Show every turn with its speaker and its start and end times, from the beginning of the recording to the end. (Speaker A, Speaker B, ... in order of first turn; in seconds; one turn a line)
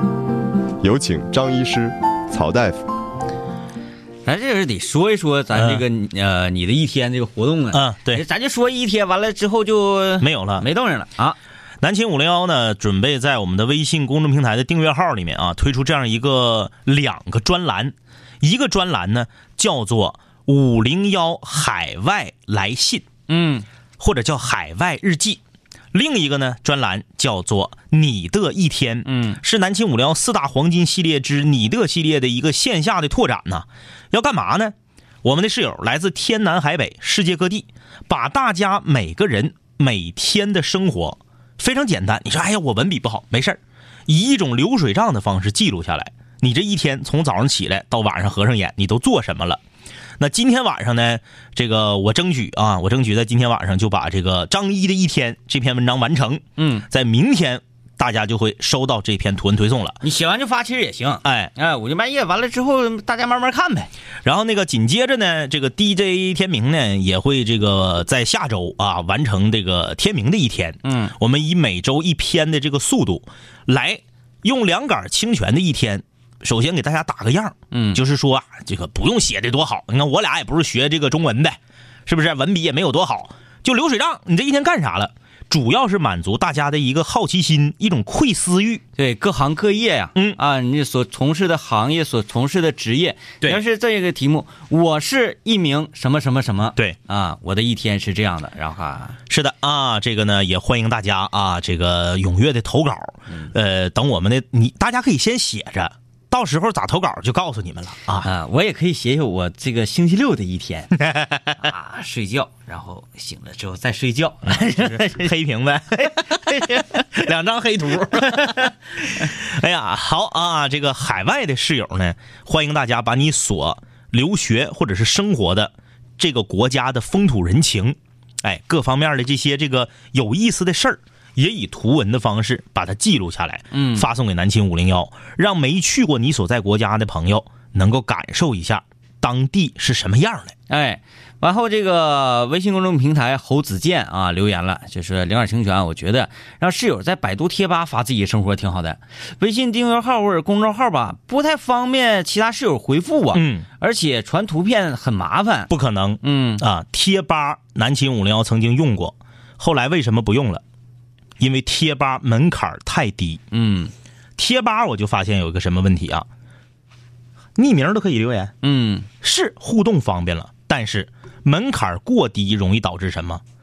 Speaker A: 0.8-2.8
Speaker B: 4.2-11.4
Speaker C: 5.5-5.8
Speaker C: 7.7-8.2
Speaker C: 10.2-10.6
Speaker C: 11.8-23.1
Speaker B: 23.3-23.6
Speaker C: 24.0-25.4
Speaker C: 25.9-49.6
Speaker B: 29.0-29.4
Speaker C: 50.2-60.0
Speaker B: 56.6-56.8
Speaker B: 60.0-63.9
Speaker C: 61.2-61.5
Speaker C: 64.2-88.8
Speaker B: 70.8-71.1
Speaker B: 77.7-78.0
Speaker B: 89.0-99.2
Speaker C: 99.3-108.3
Speaker B: 108.2-111.0
Speaker C: 111.0-111.5
Speaker B: 111.5-115.2
Speaker C: 114.5-140.5
Speaker B: 133.7-134.1
Speaker B: 140.7-155.7
Speaker C: 153.3-153.7
Speaker C: 155.7-160.6
Speaker B: 156.2-156.6
Speaker C: 161.4-163.4
Speaker B: 163.5-163.9
Speaker C: 164.4-166.3
Speaker C: 167.6-168.5
Speaker B: 168.6-169.1
Speaker C: 169.2-173.4